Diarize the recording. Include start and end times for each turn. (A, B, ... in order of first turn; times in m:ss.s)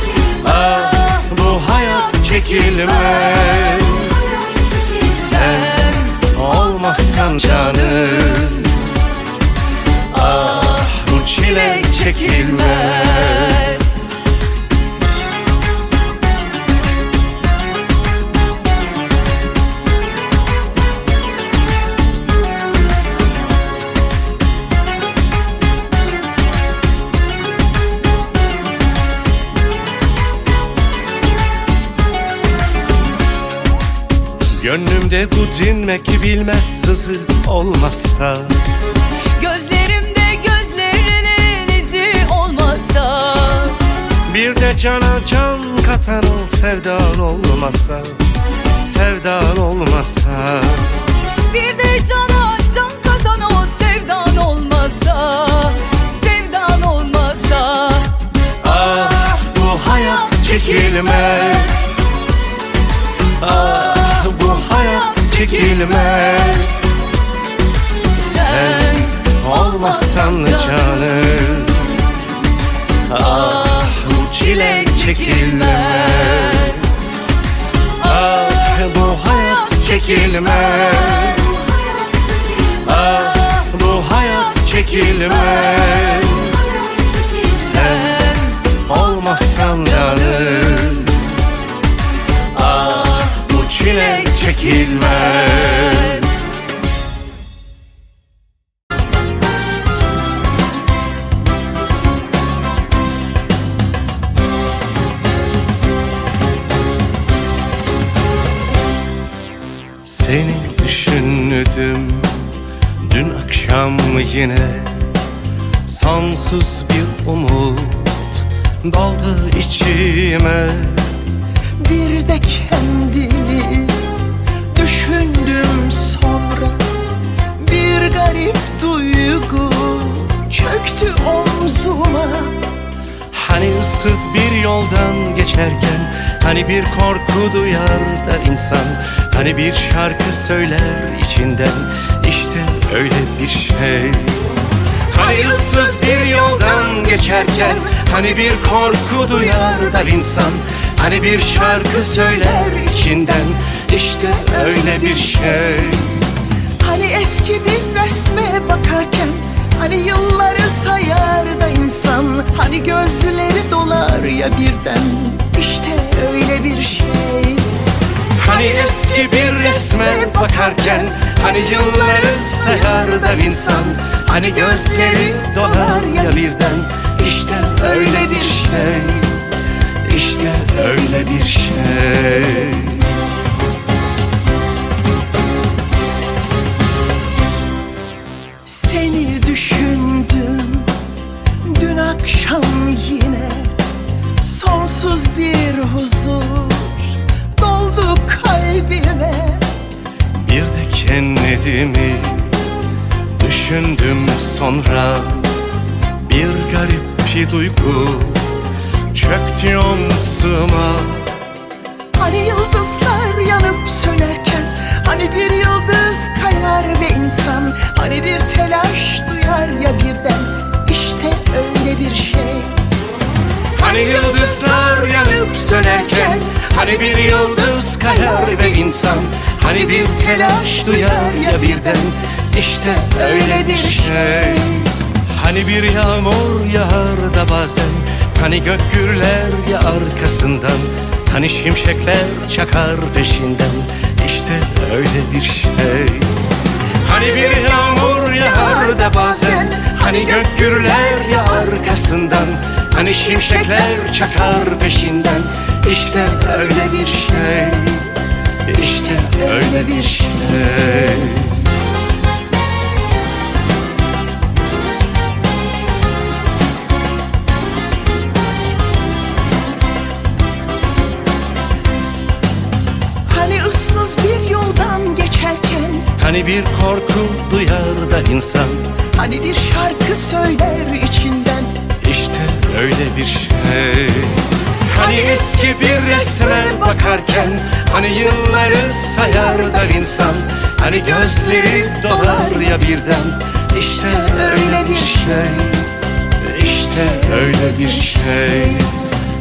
0:00.3-0:08.9 A
0:10.1-0:14.1 A
0:34.5-0:38.6 A
0:39.4-0:43.8 B
0:44.3-0:48.2 A
0:48.8-0:51.0 A
0:51.5-0:58.0 B
0:58.6-1:02.0 A
1:03.4-1:07.0 A
1:08.1-1:12.0 A
1:13.0-1:17.1 A
1:18.0-1:21.8 A
1:22.7-1:31.3 A
1:32.5-1:36.5 A
1:50.0-1:55.1 A
1:55.8-2:01.1 A
2:01.8-2:04.1 C
2:04.7-2:06.8 C
2:07.6-2:12.6 C
2:13.3-2:24.5 A
2:25.1-2:36.2 A
2:36.8-2:47.8 C
2:48.4-2:59.4 A
3:00.0-3:03.1 A
3:08.7-3:11.0 C
3:11.6-3:13.8 C
3:14.4-3:19.7 C
3:20.4-3:22.6 A
3:23.4-3:25.6 A
3:26.2-3:31.3 A
3:32.2-3:42.8 C
3:43.8-4:06.4 A
4:07.0-4:21.7 A
4:33.3-4:36.0 C
4:36.0-4:38.8 A
4:39.2-4:41.7 C
4:42.0-4:55.8 A
4:56.4-4:59.0 A